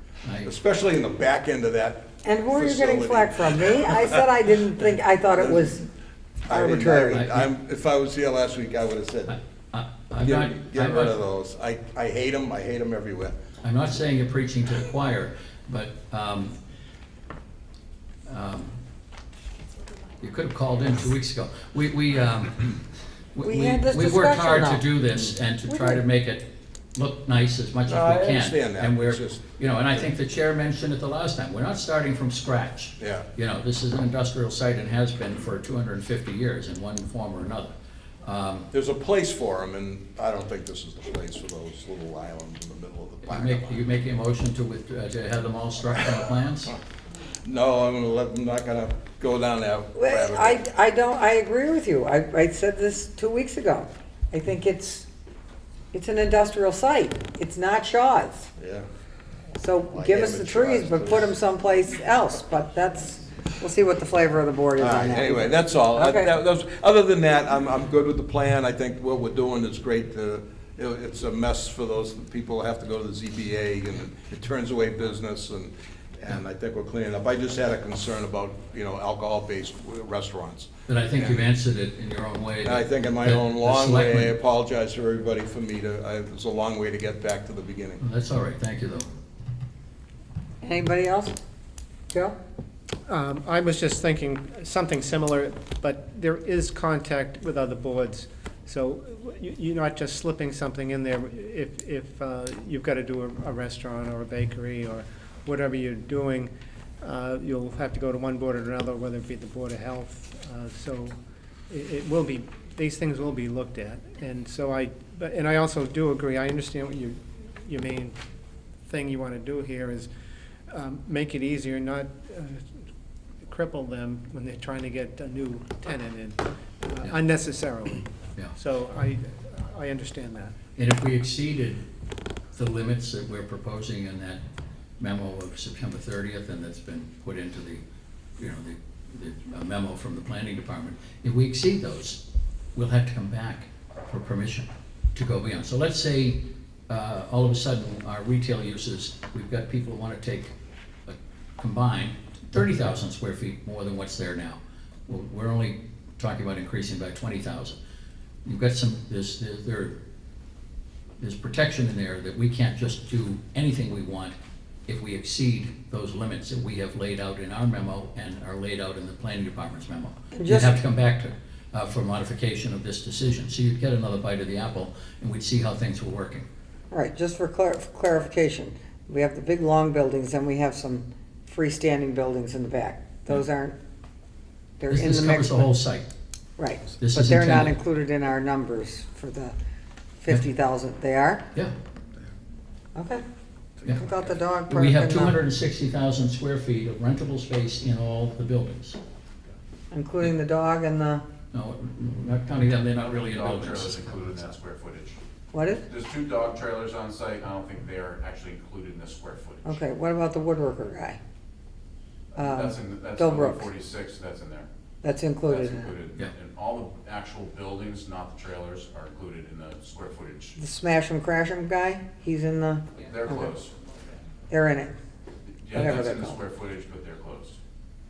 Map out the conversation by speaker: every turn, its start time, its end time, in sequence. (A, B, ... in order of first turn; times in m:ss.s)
0:00.2-0:00.5 A
0:00.4-0:04.3 B
0:02.2-0:05.8 C
0:05.3-0:05.8 B
0:06.5-0:09.4 B
0:06.5-0:07.3 C
0:07.1-0:07.5 A
0:09.3-0:11.2 A
0:10.2-0:13.4 B
0:13.6-0:16.6 A
0:18.3-0:18.8 A
0:20.2-0:22.8 A
0:23.4-0:38.7 A
0:23.4-0:24.9 C
0:25.7-0:26.0 C
0:27.9-0:29.5 B
0:33.0-0:33.3 B
0:38.7-0:43.8 B
0:43.2-0:46.7 A
0:47.4-0:50.6 B
0:50.0-0:55.1 C
0:55.9-0:58.5 C
0:58.6-0:58.9 B
0:59.6-1:06.3 C
0:59.9-1:01.3 B
1:04.8-1:21.4 B
1:20.9-1:24.4 A
1:22.6-1:28.0 B
1:28.0-1:29.1 A
1:30.6-1:31.4 C
1:32.1-1:32.4 C
1:33.1-1:46.5 D
1:47.0-1:51.1 D
1:51.7-1:57.2 D
1:57.7-1:58.1 D
1:58.9-2:00.1 D
2:00.7-2:02.6 D
2:03.4-2:06.4 D
2:06.9-2:10.5 D
2:10.8-2:11.8 A
2:12.5-2:14.4 A
2:15.0-2:17.8 A
2:18.4-2:30.5 A
2:31.1-2:37.8 A
2:38.4-2:40.0 A
2:41.2-2:44.4 A
2:44.9-2:56.5 A
2:50.3-2:50.8 C
2:56.9-3:03.8 C
3:04.8-3:05.7 C
3:04.9-3:06.1 A
3:06.6-3:09.6 C
3:07.0-3:07.8 A
3:10.2-3:11.5 C
3:13.0-3:13.2 C
3:13.9-3:15.4 C
3:14.7-3:19.0 A
3:19.9-3:21.2 C
3:21.5-3:24.2 A
3:23.0-3:25.2 E
3:25.5-3:25.9 C
3:25.8-3:29.7 E
3:29.6-3:31.2 C
3:32.4-3:33.7 C
3:32.4-3:34.7 E
3:35.0-3:36.0 C
3:35.5-3:40.6 E
3:40.6-3:43.0 C
3:43.0-3:43.8 E
3:44.5-3:45.0 C
3:45.5-3:47.6 E
3:45.7-3:46.4 C